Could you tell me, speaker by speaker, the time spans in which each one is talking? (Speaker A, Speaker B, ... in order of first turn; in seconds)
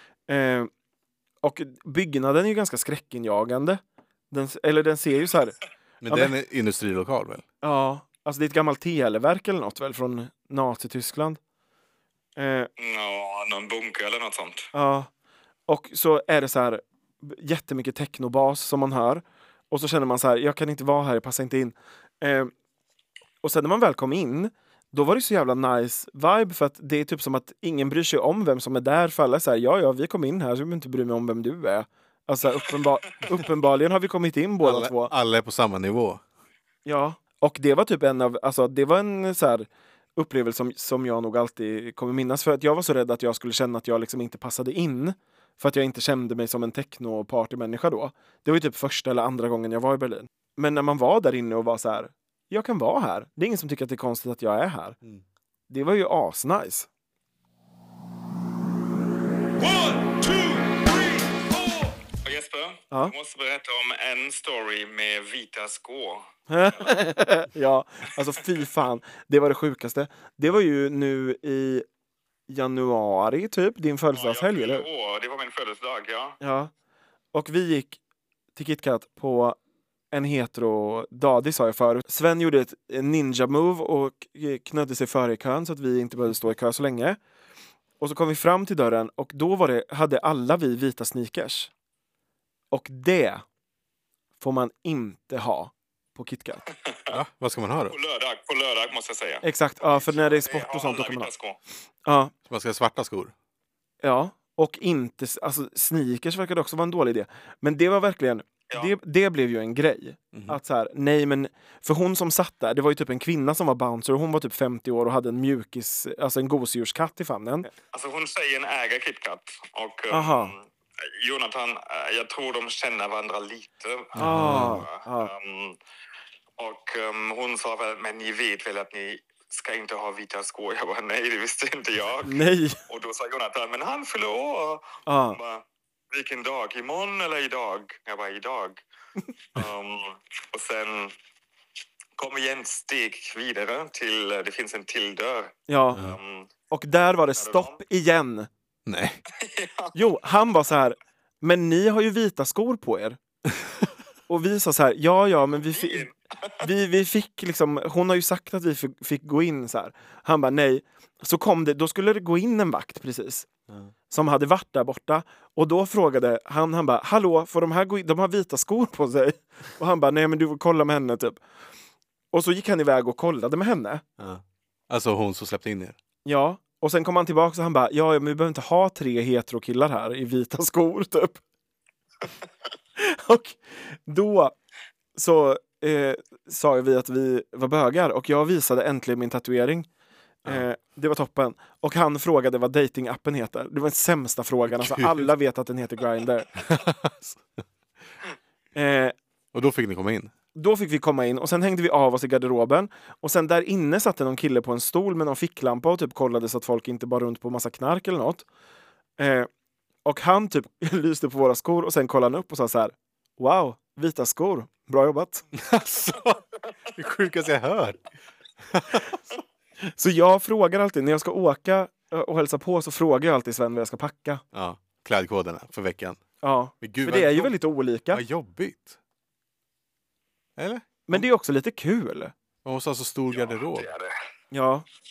Speaker A: 0.3-0.7, 1.4-5.6, 6.1-6.3, 7.6-11.4, 12.4-12.7, 14.7-15.1, 15.7-22.5, 23.4-35.1, 36.9-55.0, 55.7-56.9, 66.5-71.8, 72.5-74.9, 76.4-76.7, 77.3-78.0, 78.5-79.6, 80.1-87.2, 88.0-91.7, 92.7-93.4, 94.4-96.7, 99.4-101.3, 102.0-102.3, 104.0-117.7, 120.1-120.5, 124.2-125.3, 132.2-132.8, 135.1-135.4, 145.7-146.0, 146.7-148.5, 149.9-153.2, 154.3-156.1, 156.6-163.5, 164.1-171.4, 172.3-174.0, 176.2-181.4, 182.9-184.6, 185.2-189.9, 190.4-196.5, 198.7-199.2, 200.5-208.4, 209.2-209.5, 210.0-215.4, 219.8-224.4, 226.4-228.2, 231.1-232.3, 234.5-234.8
Speaker B: 6.0-7.4, 34.6-36.2, 97.1-97.9, 102.5-103.3, 110.3-110.6, 124.2-124.8, 148.8-149.2, 174.2-175.9, 194.7-195.3, 196.6-197.4, 199.5-200.3, 215.5-218.0, 218.6-219.1, 224.5-226.2, 226.8-227.5, 228.1-229.0, 230.6-231.2, 232.6-233.9
Speaker C: 12.8-14.7, 62.2-66.9, 74.1-76.4, 96.8-97.2, 97.9-101.6, 117.9-125.8, 126.6-138.8, 139.5-141.2, 142.2-146.5, 147.3-147.8, 149.3-150.0, 155.6-156.7, 233.3-234.1